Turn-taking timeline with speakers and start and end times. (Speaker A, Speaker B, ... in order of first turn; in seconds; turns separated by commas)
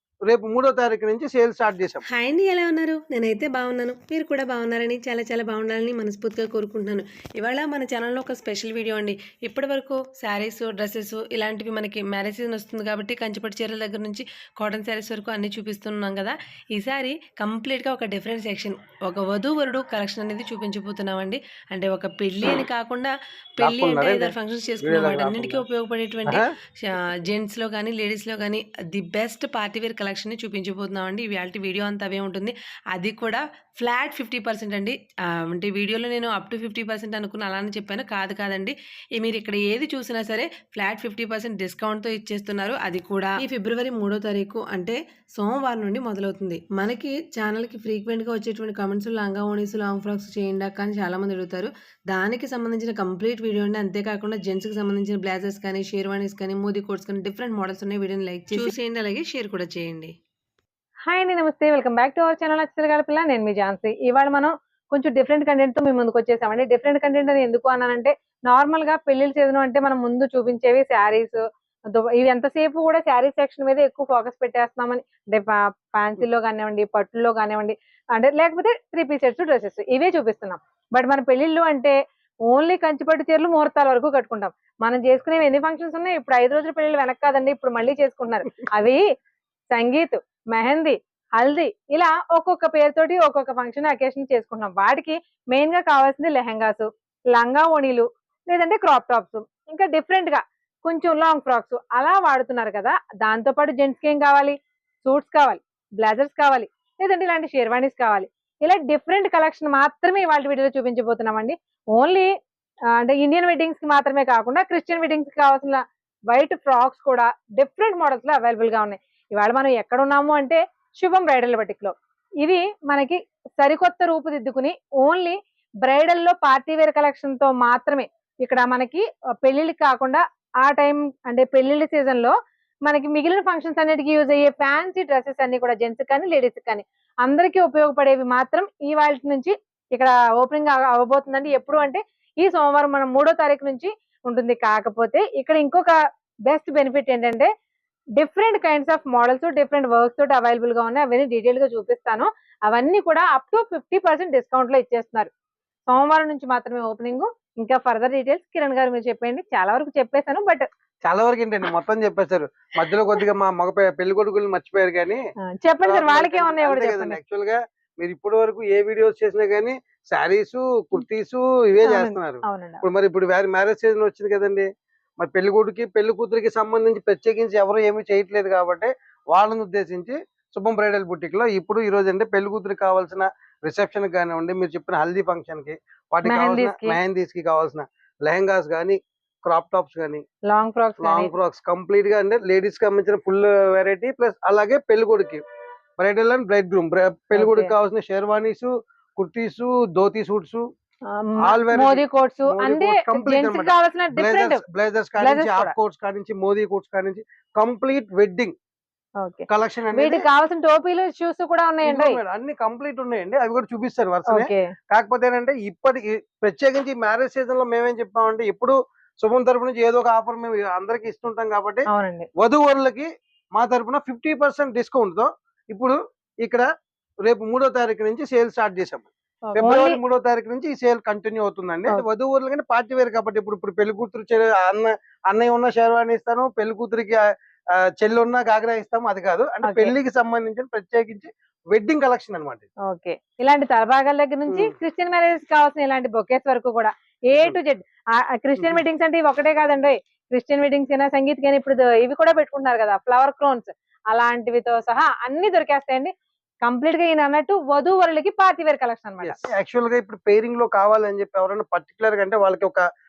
Speaker A: 0.2-2.0, Speaker B: 2.1-60.1, Speaker A: 23.6-25.6, Speaker C: 61.1-71.4, Speaker C: 71.9-81.9, Speaker C: 82.5-89.0, Speaker C: 89.7-112.3, Speaker C: 112.9-132.3, Speaker C: 132.8-147.5, Speaker C: 148.2-155.3, Speaker C: 155.9-160.7, Speaker A: 161.0-165.2, Speaker C: 165.4-167.2, Speaker A: 165.8-174.7, Speaker C: 171.9-172.8, Speaker A: 175.2-190.2, Speaker C: 186.2-187.0, Speaker C: 190.5-191.3, Speaker A: 191.0-195.4, Speaker A: 196.0-200.6, Speaker C: 197.4-197.7, Speaker C: 201.1-204.6, Speaker A: 201.4-208.5, Speaker C: 205.2-205.7, Speaker C: 209.2-212.2, Speaker A: 209.5-210.2, Speaker A: 211.8-226.7, Speaker C: 214.3-214.7, Speaker C: 221.9-222.3, Speaker A: 227.2-237.2, Speaker C: 229.5-230.0, Speaker A: 237.9-242.7, Speaker C: 239.6-239.9, Speaker C: 242.9-256.1, Speaker A: 244.5-244.7, Speaker C: 256.6-259.5, Speaker A: 259.2-262.8